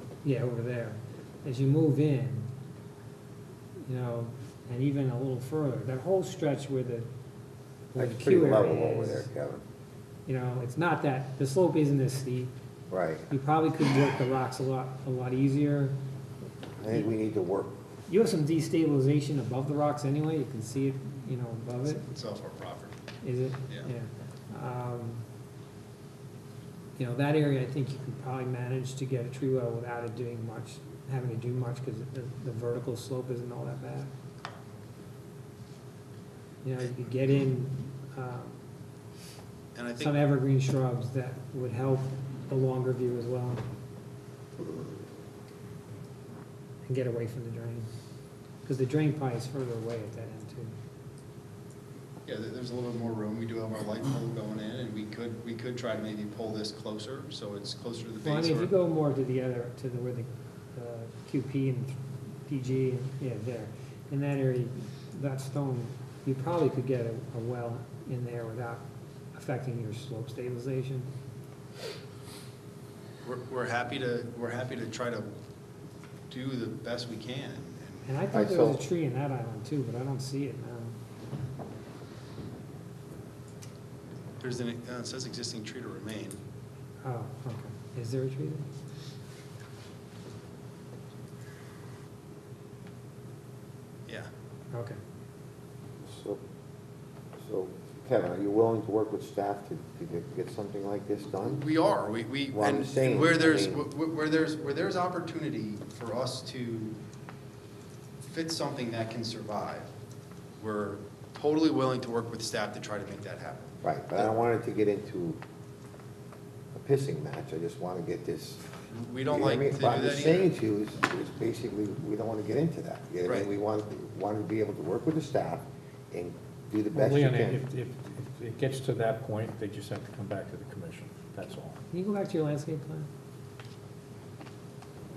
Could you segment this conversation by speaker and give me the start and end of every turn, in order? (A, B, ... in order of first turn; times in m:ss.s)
0:00.2-0:02.5 A
0:03.8-0:07.1 A
0:07.9-0:09.6 B
0:07.9-0:09.3 A
0:10.2-0:12.5 A
0:12.9-0:13.3 B
0:13.3-0:16.0 A
0:16.8-0:17.8 B
0:18.1-0:22.0 A
0:22.0-0:22.9 C
0:23.2-0:25.2 A
0:27.0-0:34.1 A
0:36.6-0:38.6 A
0:39.7-0:40.2 C
0:40.0-0:43.6 A
0:46.8-0:47.9 A
0:48.6-0:50.7 A
0:52.2-0:58.7 C
0:58.2-1:11.1 A
1:13.2-1:15.3 C
1:16.3-1:18.0 C
1:18.0-1:21.0 A
1:18.3-1:18.8 B
1:24.4-1:26.4 C
1:27.0-1:28.7 A
1:34.7-1:35.0 A
1:36.0-1:36.4 B
1:37.4-1:41.6 B
1:41.4-1:47.0 C
1:42.5-1:43.8 B
1:48.2-1:49.9 C
1:50.6-1:54.2 C
1:53.8-1:55.4 B
1:56.7-1:58.6 B
1:58.9-2:00.5 C
1:59.3-2:07.6 B
2:03.2-2:03.5 C
2:06.9-2:11.8 D
2:11.9-2:13.1 A